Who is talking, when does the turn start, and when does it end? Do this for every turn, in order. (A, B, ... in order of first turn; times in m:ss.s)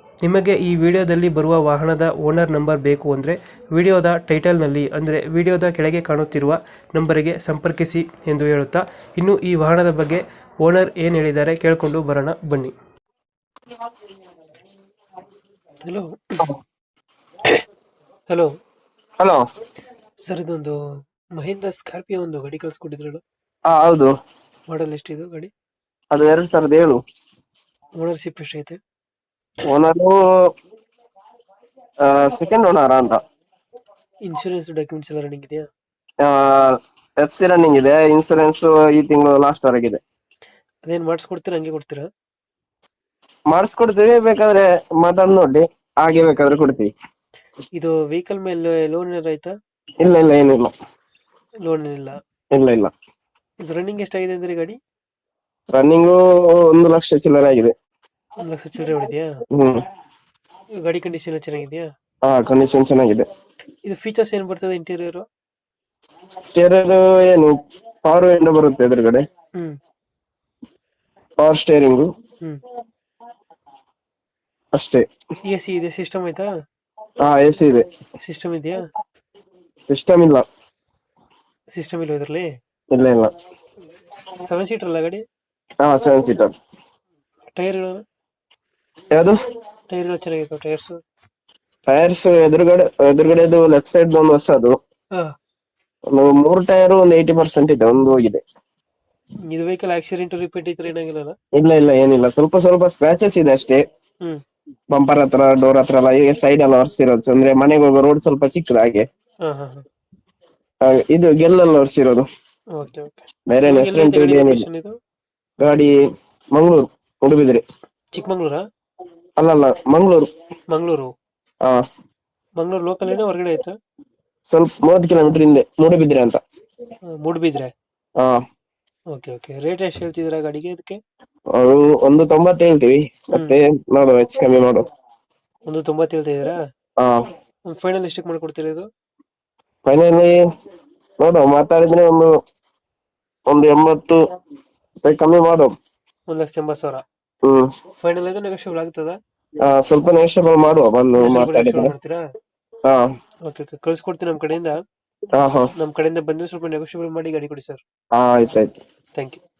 0:00.2-0:12.7 A
0:15.8-0:16.5 A
0:20.2-0:20.8 A
0:21.4-0:23.2 A
0:23.7-0:24.1 B
0:24.7-0:25.5 A
0:26.1-0:27.0 B
0:28.0-0:28.8 A
0:29.6-0:30.2 B
0:32.0-0:33.2 B
0:34.2-0:35.7 A
0:36.2-0:40.0 B
0:40.8-0:42.1 A
0:43.5-0:46.9 B
0:47.7-0:49.5 A
0:50.0-0:50.7 B
0:51.6-0:52.2 A
0:52.5-0:52.9 B
0:53.6-0:54.8 A
0:55.7-0:57.7 B
0:58.4-0:59.3 A
0:59.5-0:59.8 B
1:00.8-1:01.9 A
1:02.2-1:03.2 B
1:03.8-1:05.2 A
1:06.5-1:09.2 B
1:11.4-1:12.1 B
1:14.7-1:15.0 B
1:15.4-1:16.5 A
1:17.2-1:17.8 B
1:18.2-1:18.8 A
1:19.9-1:20.4 B
1:21.7-1:22.5 A
1:22.9-1:23.3 B
1:24.4-1:25.2 A
1:25.8-1:26.5 B
1:27.5-1:28.0 A
1:29.9-1:31.0 A
1:31.9-1:34.8 B
1:36.1-1:38.4 B
1:39.5-1:41.3 A
1:41.5-1:43.8 B
1:44.9-1:49.0 B
1:49.4-1:49.8 A
1:50.8-1:52.2 B
1:52.7-1:54.9 A
1:53.5-1:54.6 B
1:55.6-1:56.0 B
1:56.5-1:57.6 B
1:58.1-1:58.6 A
1:59.4-2:00.3 B
2:00.7-2:01.1 A
2:02.6-2:03.8 A
2:04.5-2:06.4 B
2:07.2-2:07.7 A
2:09.1-2:11.0 A
2:11.5-2:14.8 B
2:13.3-2:13.6 A
2:15.7-2:16.6 A
2:17.0-2:17.2 B
2:17.7-2:18.9 A
2:19.8-2:20.4 B
2:21.2-2:22.3 B
2:23.5-2:24.2 B
2:25.0-2:25.7 B
2:26.3-2:27.0 A
2:27.4-2:27.7 B
2:28.0-2:29.2 A
2:29.6-2:31.9 B
2:31.2-2:32.2 A
2:33.4-2:34.7 A
2:35.3-2:35.7 B
2:35.8-2:37.8 A
2:38.1-2:38.8 B
2:39.1-2:39.4 A